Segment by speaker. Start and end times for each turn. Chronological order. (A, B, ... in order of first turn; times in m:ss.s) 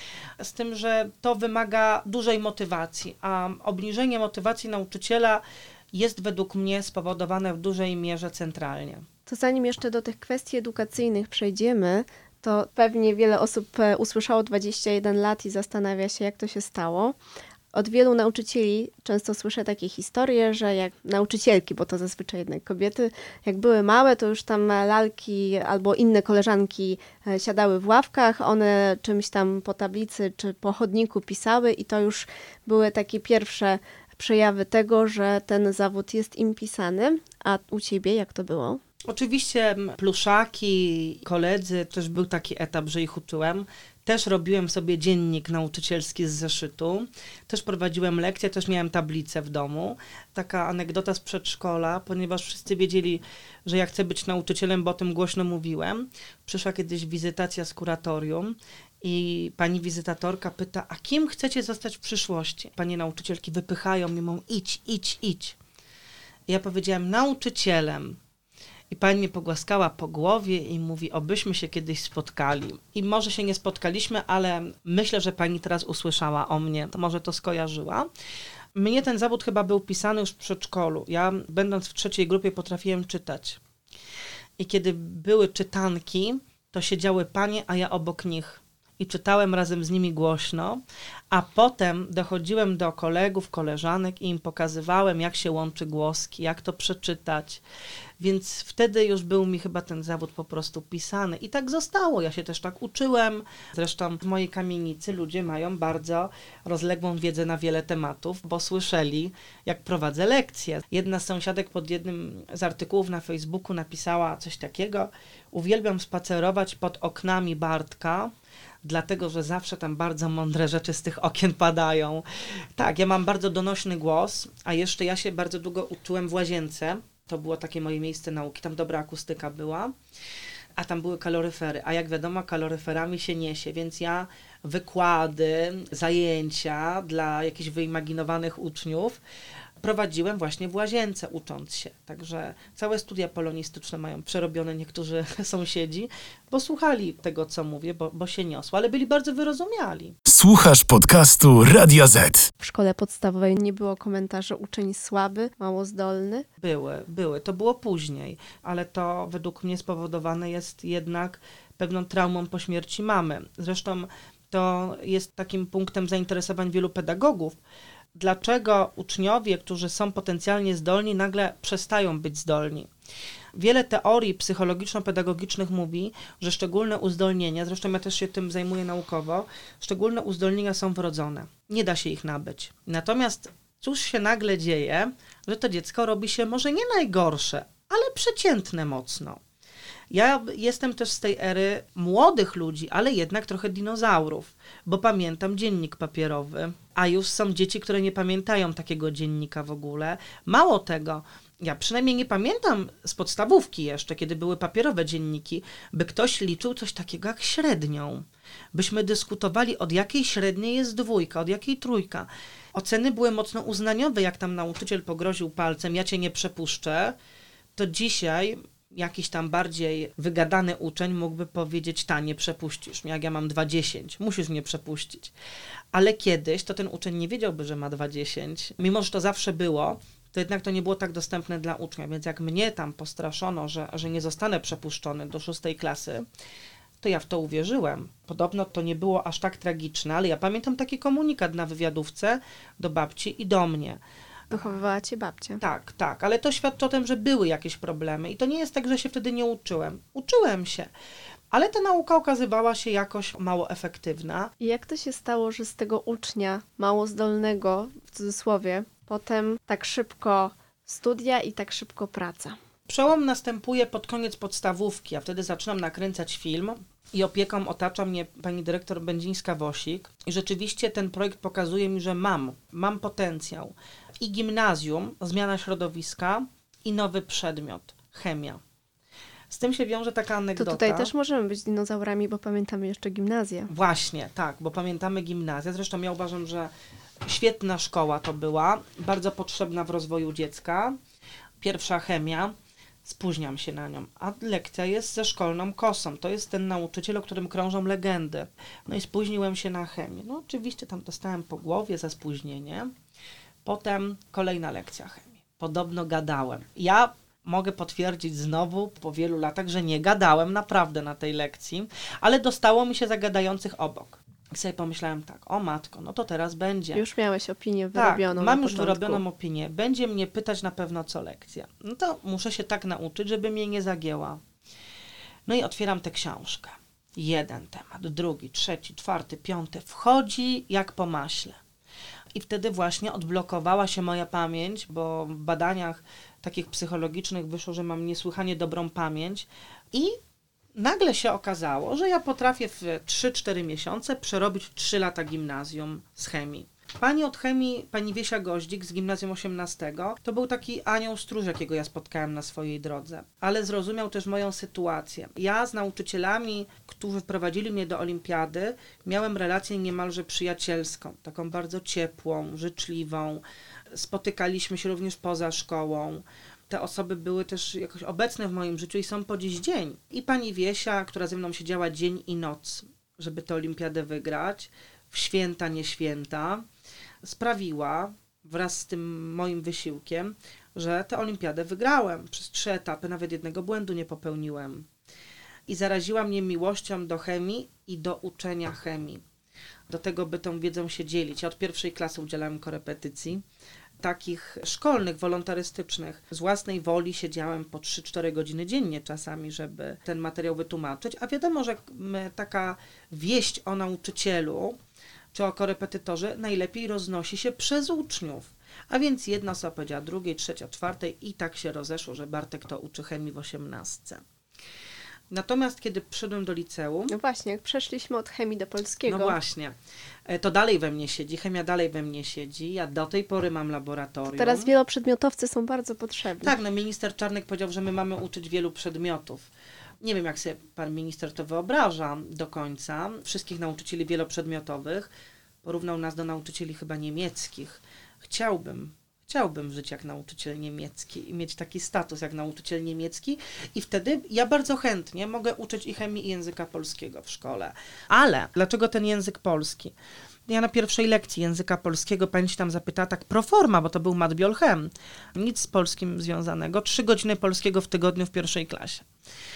0:00.4-0:09.1 A
0:09.3-0:17.2 B
0:17.7-0:38.8 B
0:39.1-1:05.6 A
1:06.5-1:08.2 A
1:08.9-1:18.1 A
1:18.8-1:23.6 A
1:24.6-1:37.6 A
1:38.2-1:58.3 A
1:58.8-2:02.2 A
2:02.8-2:09.9 A
2:10.8-2:19.2 A
2:19.8-2:30.2 A
2:30.3-2:32.5 C
2:32.6-2:36.5 B
2:36.6-2:47.6 A
2:48.2-2:52.9 A
2:53.6-3:09.4 A
3:10.1-3:37.2 A
3:37.8-3:45.3 A
3:45.9-3:56.2 A
3:57.0-4:04.0 A
4:04.5-4:05.6 B
4:05.6-4:10.9 A
4:11.5-4:14.5 A
4:14.6-4:22.6 B
4:22.9-4:38.6 A
4:39.5-4:41.1 A
4:40.6-4:43.7 B
4:43.7-4:46.7 A
4:47.2-4:51.0 A
4:51.6-4:52.5 A
4:53.0-5:02.9 A
5:03.6-5:17.0 A
5:16.9-5:19.2 B
5:18.0-5:24.4 A
5:25.5-5:31.6 A
5:32.3-5:40.2 A
5:40.8-6:16.6 A
6:17.2-6:24.9 A
6:25.7-6:29.2 A
6:29.9-6:33.4 A
6:34.0-6:44.8 A
6:45.3-6:54.2 A
6:55.3-6:57.1 A
6:57.1-6:59.4 B
6:59.1-6:59.8 A
7:00.3-7:04.7 A
7:04.3-7:06.6 B
7:06.4-7:09.5 A
7:10.0-7:15.1 A
7:15.6-7:30.0 A
7:30.5-7:39.1 A